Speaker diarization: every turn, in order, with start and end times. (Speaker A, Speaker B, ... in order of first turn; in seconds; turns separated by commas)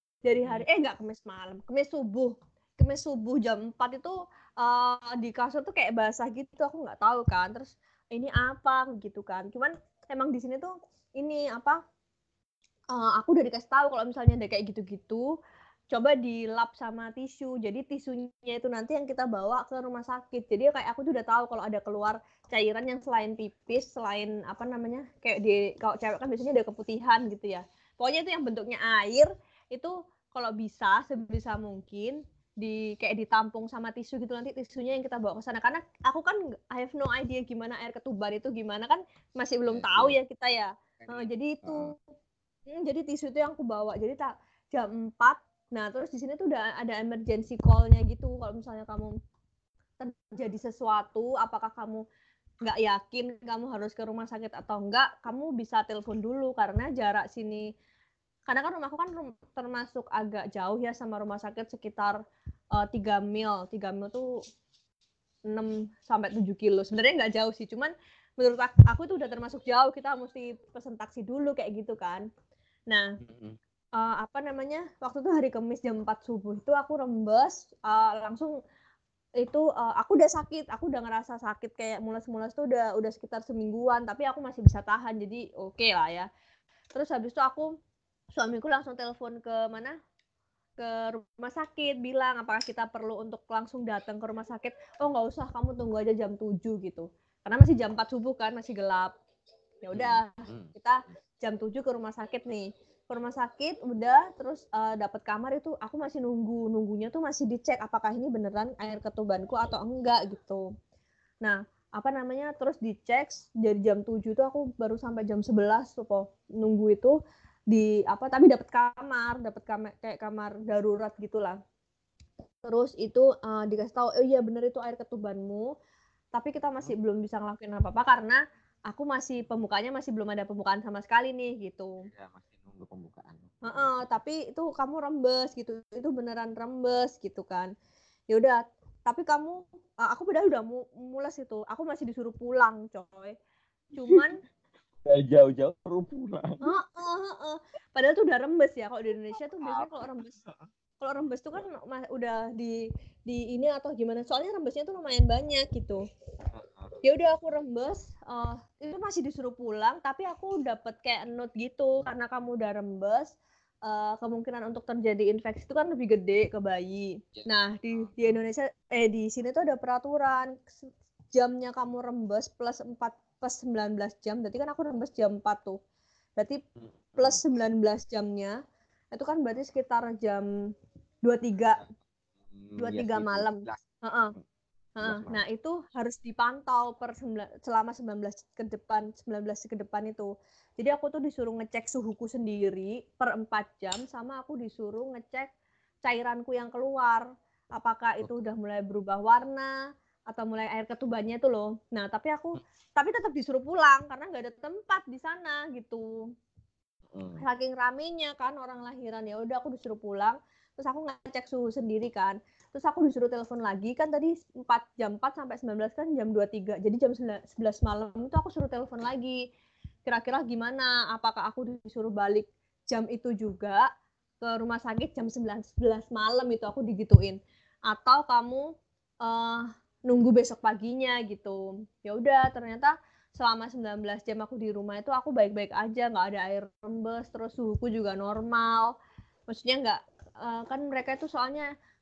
Speaker A: 0.2-11.8, Speaker B: 0.4-0.7, Speaker A: 12.9-15.3, Speaker A: 15.9-42.0, Speaker B: 39.7-40.2, Speaker B: 41.0-41.9, Speaker A: 42.7-49.2, Speaker A: 50.0-52.0, Speaker A: 52.6-57.7, Speaker A: 58.5-62.2, Speaker A: 62.7-64.3, Speaker A: 65.5-72.3, Speaker A: 72.9-73.2, Speaker B: 73.2-73.6, Speaker A: 74.0-78.6, Speaker A: 79.4-86.3, Speaker A: 86.9-87.7, Speaker A: 88.3-90.0, Speaker A: 90.8-99.1, Speaker A: 99.8-110.6, Speaker B: 99.9-100.7, Speaker A: 111.4-117.2, Speaker A: 117.7-121.6, Speaker A: 122.7-125.7, Speaker A: 126.3-132.1, Speaker B: 132.1-133.9, Speaker A: 133.6-137.7, Speaker A: 138.3-143.3, Speaker A: 143.9-144.4, Speaker B: 145.1-146.6, Speaker A: 146.6-150.4, Speaker B: 149.6-150.7, Speaker A: 151.0-156.0, Speaker B: 156.5-157.0, Speaker A: 157.0-170.7, Speaker B: 167.3-168.4, Speaker A: 171.3-175.8, Speaker A: 176.4-176.6, Speaker B: 176.8-177.4, Speaker A: 177.2-178.6, Speaker A: 179.1-180.5, Speaker A: 181.2-181.8, Speaker B: 182.5-183.8, Speaker A: 182.8-184.3, Speaker A: 185.0-195.5, Speaker B: 185.0-185.4, Speaker A: 196.0-199.7, Speaker A: 200.3-206.1, Speaker B: 207.1-207.4, Speaker A: 207.4-219.4, Speaker A: 220.1-223.8, Speaker A: 224.4-228.7, Speaker A: 229.2-238.9, Speaker A: 239.5-241.7